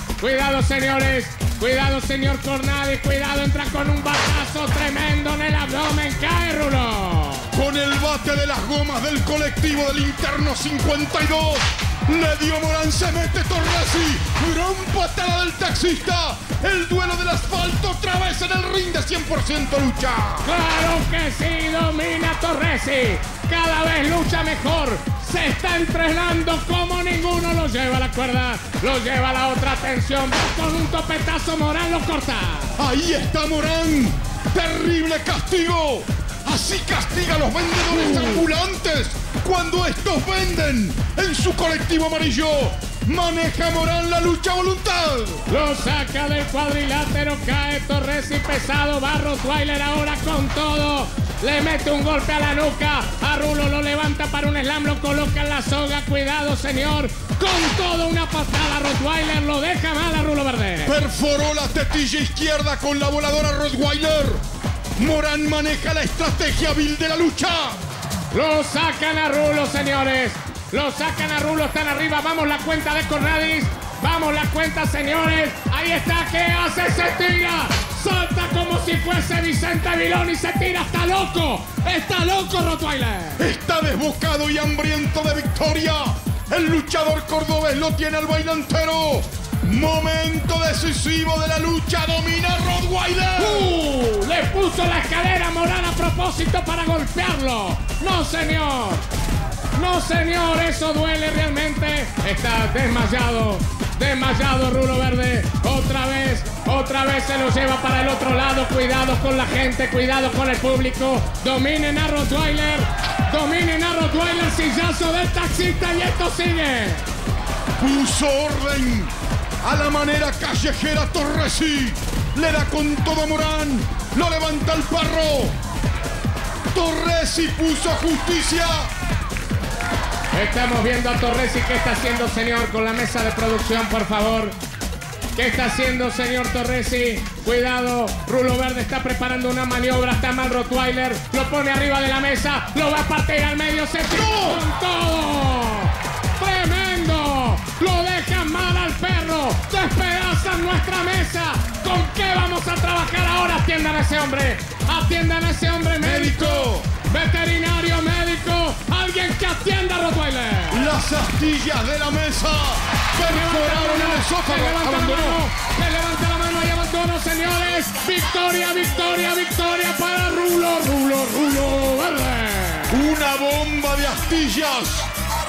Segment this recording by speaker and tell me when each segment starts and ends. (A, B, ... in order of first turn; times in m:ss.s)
0:00.2-0:07.5 A
0:07.5-0:20.5 B
0:20.4-0:32.8 A
0:32.8-0:45.4 B
0:38.1-0:38.4 A
0:45.5-1:01.0 A
1:00.9-1:04.4 B
1:05.0-1:07.8 B
1:08.3-1:23.4 A
1:23.4-1:33.7 B
1:33.4-1:39.0 A
1:39.8-1:57.1 A
1:57.8-2:05.5 B
2:06.7-2:08.9 B
2:10.3-2:14.6 A
2:15.4-2:40.9 A
2:24.1-2:24.6 B
2:36.0-2:36.9 B
2:40.7-2:45.4 B
2:43.2-2:53.0 A
2:52.9-2:55.1 B